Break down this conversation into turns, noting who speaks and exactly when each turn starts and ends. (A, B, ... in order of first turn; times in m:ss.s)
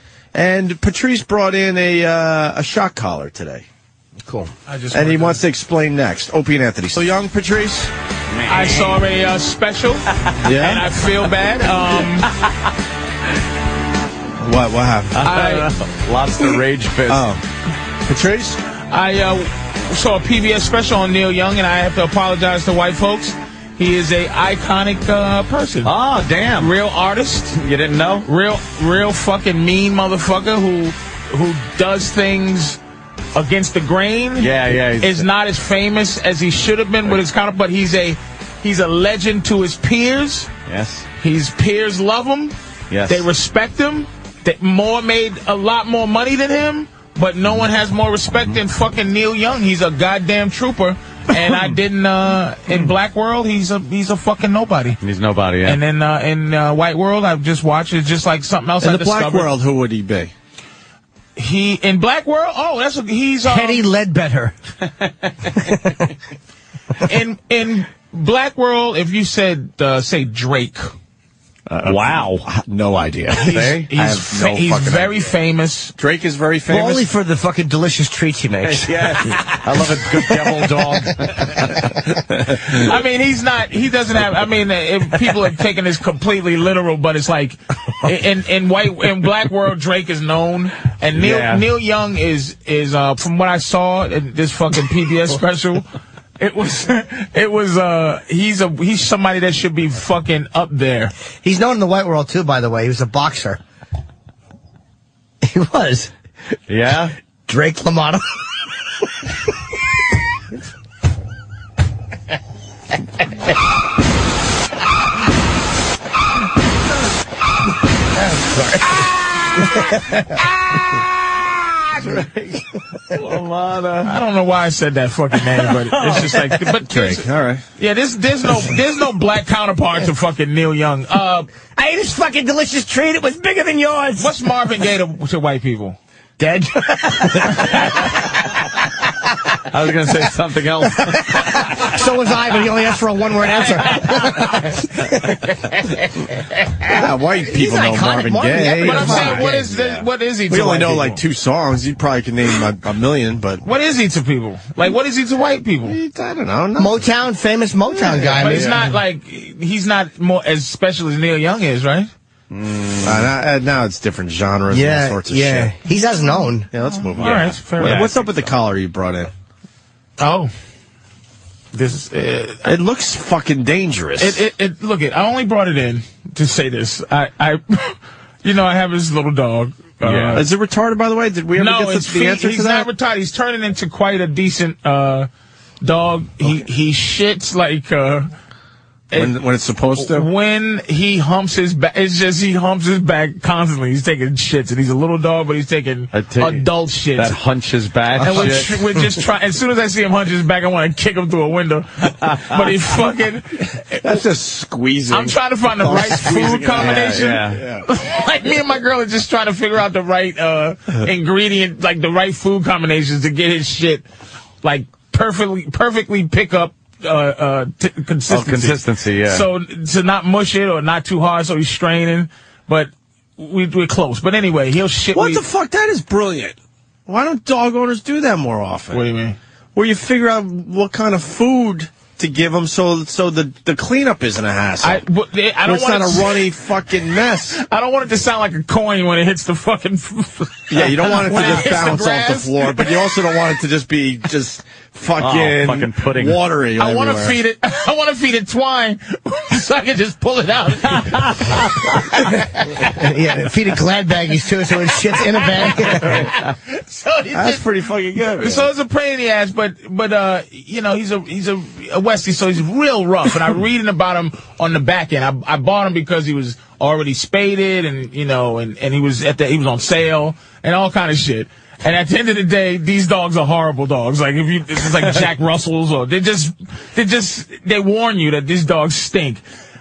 0:00.3-0:03.6 A
0:04.2-0:04.5 B
0:04.7-0:05.4 C
0:04.9-0:07.9 A
0:08.3-0:09.0 D
0:08.4-0:10.0 C
0:10.3-0:10.8 D
0:10.4-0:10.8 A
0:10.6-0:12.3 C
0:12.2-0:12.7 D
0:14.4-0:15.2 A
0:15.1-0:17.3 D
0:15.2-0:15.7 C
0:17.1-0:17.4 A
0:18.1-0:18.6 A
0:18.9-0:25.9 C
0:25.8-0:26.7 D
0:26.6-0:27.6 C
0:27.6-0:28.2 D
0:28.2-0:32.8 C
0:33.3-0:40.5 C
0:34.4-0:35.2 D
0:40.7-0:41.1 D
0:41.2-0:42.5 C
0:42.9-0:43.2 D
0:43.1-0:55.0 C
0:55.0-0:55.8 D
0:55.6-0:59.5 C
0:58.8-1:00.3 A
1:01.4-1:03.8 C
1:03.4-1:04.6 B
1:05.6-1:06.0 B
1:07.0-1:10.9 C
1:11.7-1:15.3 A
1:11.8-1:12.4 D
1:13.4-1:13.9 D
1:13.4-1:15.9 C
1:16.0-1:17.1 A
1:16.7-1:19.3 B
1:18.6-1:21.9 D
1:22.6-1:35.9 C
1:31.1-1:31.6 D
1:36.4-1:41.1 C
1:41.4-1:43.6 B
1:45.4-1:46.1 B
1:46.7-1:47.1 D
1:47.5-1:48.2 B
1:59.6-1:59.9 B
2:01.9-2:02.6 D
2:03.1-2:04.2 D
2:04.0-2:07.2 C
2:06.0-2:06.4 D
2:06.8-2:07.6 A
2:07.8-2:11.5 C
2:11.8-2:14.3 B
2:14.2-2:16.0 C
2:16.4-2:17.9 B
2:19.7-2:21.9 D
2:21.1-2:25.4 B
2:26.9-2:33.6 A
2:27.5-2:29.8 B
2:28.8-2:31.2 C
2:33.6-2:36.0 C
2:35.9-2:37.0 A
2:36.8-2:38.8 B
2:37.9-2:38.7 A
2:38.4-2:42.1 C
2:42.5-2:43.3 D
2:43.0-2:45.7 A
2:44.7-2:46.7 B
2:46.7-2:49.3 A
2:47.2-2:48.2 C
2:47.2-2:48.1 D
2:50.2-2:50.5 C
2:51.7-2:52.7 C
2:52.6-2:54.4 A
2:54.2-3:00.5 C
3:00.0-3:00.4 D
3:00.4-3:02.9 A
3:01.6-3:05.3 C
3:05.8-3:08.3 C
3:09.1-3:10.3 A
3:10.0-3:17.3 C
3:16.1-3:16.6 D
3:17.2-3:18.8 D
3:18.2-3:24.2 C
3:22.3-3:22.7 D
3:24.0-3:27.8 A
3:25.1-3:34.0 C
3:26.7-3:27.6 D
3:34.6-3:45.4 C
3:38.3-3:39.4 D
3:45.1-3:46.6 A
3:47.1-3:49.0 A
3:48.9-3:49.4 C
3:49.7-3:55.0 A
3:54.8-3:56.4 C
3:55.6-3:57.6 A
3:57.5-4:03.1 C
4:00.7-4:07.4 A
4:05.2-4:06.4 D
4:06.8-4:12.3 C
4:11.0-4:11.9 D
4:12.8-4:16.3 B
4:15.4-4:17.6 C
4:17.3-4:18.7 A
4:18.4-4:39.4 C